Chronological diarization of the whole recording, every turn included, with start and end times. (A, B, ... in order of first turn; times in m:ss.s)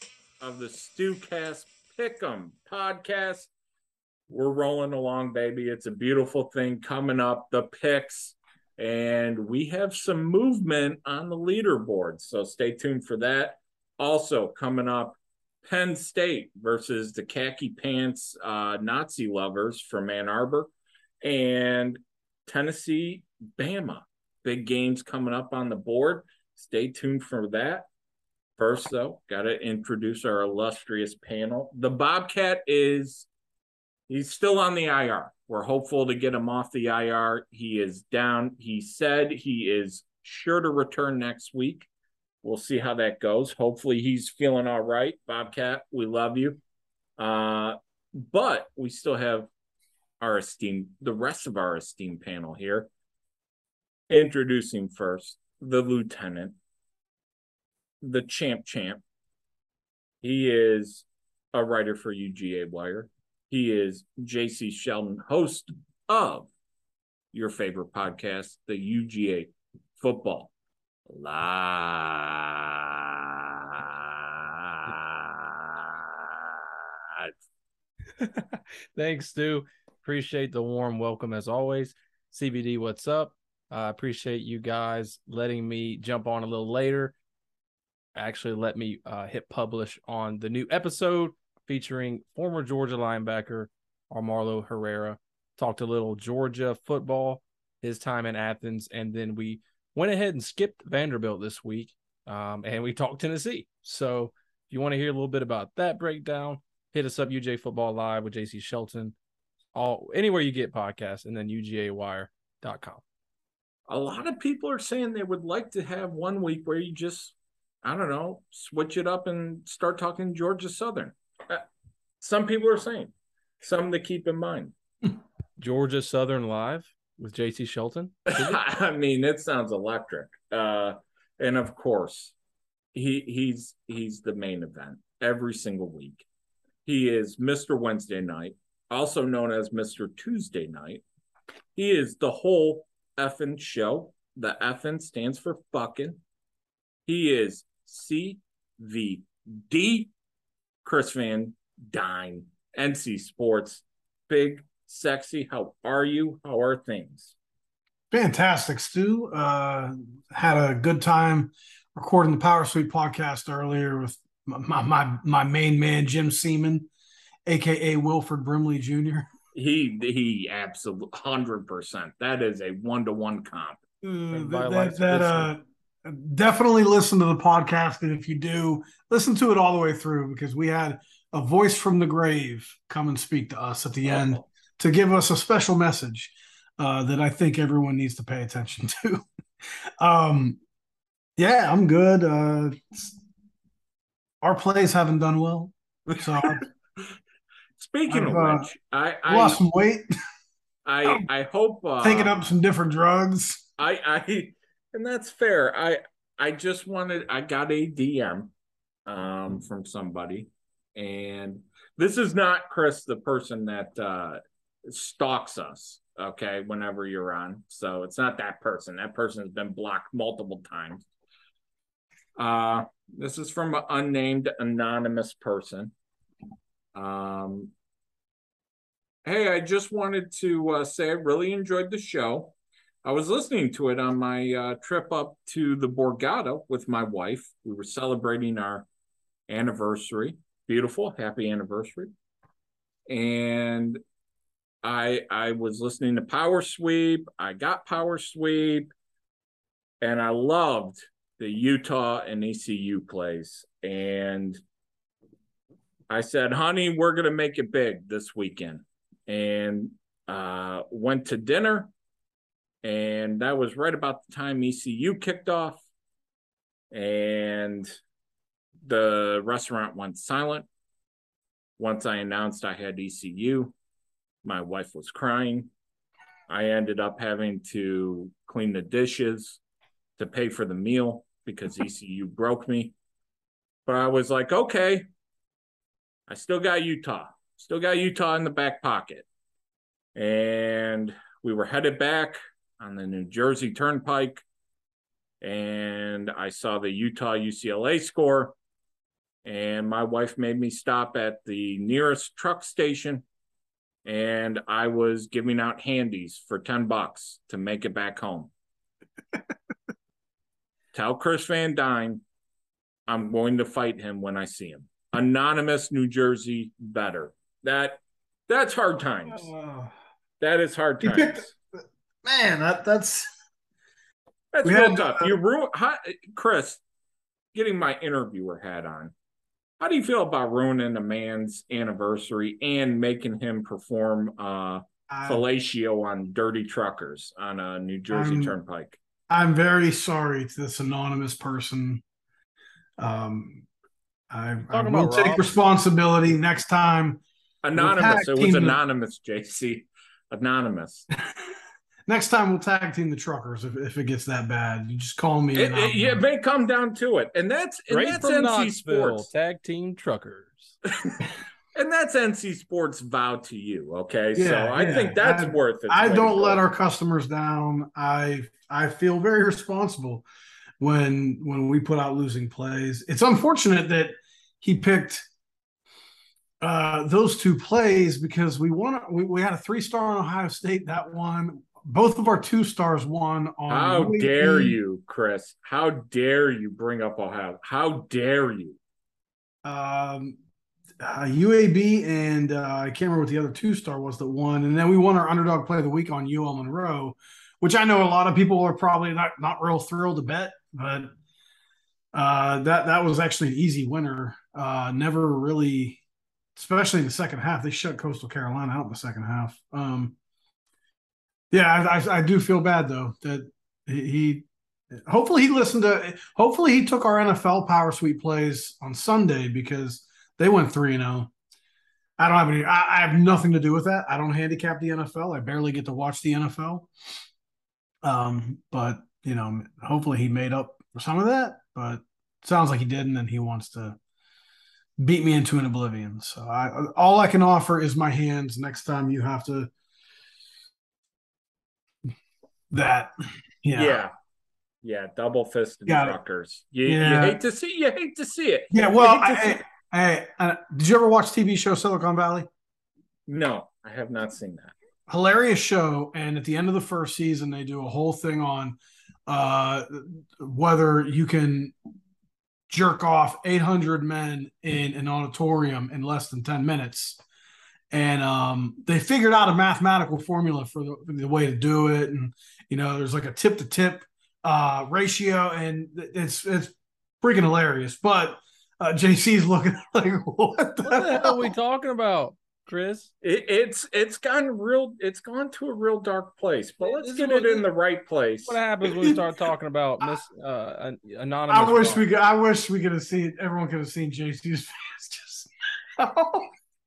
0:00.4-0:03.5 A
0:04.3-0:20.7 A
0:21.2-0:27.9 A
0:28.6-0:33.3 A
0:34.1-0:41.9 A
0:42.4-0:46.6 A
0:47.2-0:49.5 A
0:50.2-0:52.9 A
0:54.1-0:56.6 A
0:58.0-0:59.0 A
1:00.2-1:06.5 A
1:07.3-1:10.5 A
1:11.1-1:17.3 A
1:18.2-1:27.2 B
1:28.2-1:49.2 B
1:49.7-1:53.0 B
1:53.9-2:01.6 A
2:02.2-2:04.7 A
2:05.6-2:08.6 B
2:08.3-2:12.4 A
2:12.9-2:16.3 A
2:16.8-2:21.0 A
2:21.8-2:26.2 A
2:27.1-2:30.1 A
2:30.8-2:37.4 A
2:38.1-2:46.9 C
2:47.5-2:49.3 C
2:49.5-2:53.8 A
2:54.0-3:09.2 C
2:54.3-2:55.5 B
3:10.0-3:10.6 C
3:11.4-3:13.2 C
3:14.4-3:16.6 C
3:17.8-3:19.6 A
3:18.1-3:18.7 C
3:19.3-3:20.1 C
3:20.8-3:22.5 A
3:22.0-3:23.6 C
3:23.8-3:28.5 A
3:29.1-3:41.1 A
3:42.4-3:45.9 A
3:46.9-3:47.7 A
3:49.2-3:58.9 A
3:59.5-4:02.1 A
4:03.1-4:04.0 A
4:04.8-4:08.9 A
4:10.0-4:14.6 A
4:16.1-4:21.9 A
4:22.8-4:25.8 A
4:26.9-4:27.9 A
4:28.8-4:30.7 A
4:31.8-4:33.7 A
4:34.4-4:35.7 A
4:36.5-4:39.6 A
4:40.2-4:42.9 A
4:43.9-4:45.1 A
4:46.3-4:49.3 A
4:50.2-4:54.4 A
4:55.4-4:58.6 A
4:59.4-5:03.2 A
5:04.0-5:08.5 A
5:10.9-5:12.2 A
5:13.1-5:19.5 A
5:19.3-5:19.9 C
5:20.4-5:21.5 A
5:21.0-5:23.3 C
5:24.5-5:26.8 A
5:24.6-5:25.4 C
5:27.5-5:29.1 A
5:29.8-5:39.0 A
5:35.1-5:35.4 C
5:38.1-5:38.6 C
5:39.3-5:42.0 C
5:43.0-5:43.7 C
5:44.3-5:47.2 C
5:44.7-5:45.5 B
5:47.6-5:51.1 A
5:47.8-5:48.8 C
5:52.1-5:56.2 C
5:55.5-5:59.3 A
5:57.9-6:00.8 B
6:01.0-6:06.6 A
6:04.4-6:10.3 C
6:10.8-6:15.3 C
6:16.6-6:24.8 C
6:23.7-6:28.8 A
6:29.6-6:30.4 C
6:31.0-6:41.2 C
6:42.1-6:46.0 C
6:46.6-6:50.2 C
6:51.5-7:01.3 C
7:02.2-7:06.9 C
7:08.0-7:14.0 C
7:15.0-7:19.7 C
7:22.7-7:23.1 C
7:23.6-7:24.0 C
7:23.8-7:24.1 A
7:24.8-7:29.6 A
7:25.9-7:26.2 C
7:26.9-7:27.4 C
7:28.7-7:32.5 C
7:33.3-7:34.7 A
7:35.1-7:41.8 C
7:42.7-7:47.2 C
7:47.9-8:01.5 C
8:00.8-8:03.1 B
8:03.2-8:08.6 A
8:06.8-8:07.7 B
8:08.4-8:12.0 B
8:08.8-8:09.2 C
8:11.5-8:16.5 C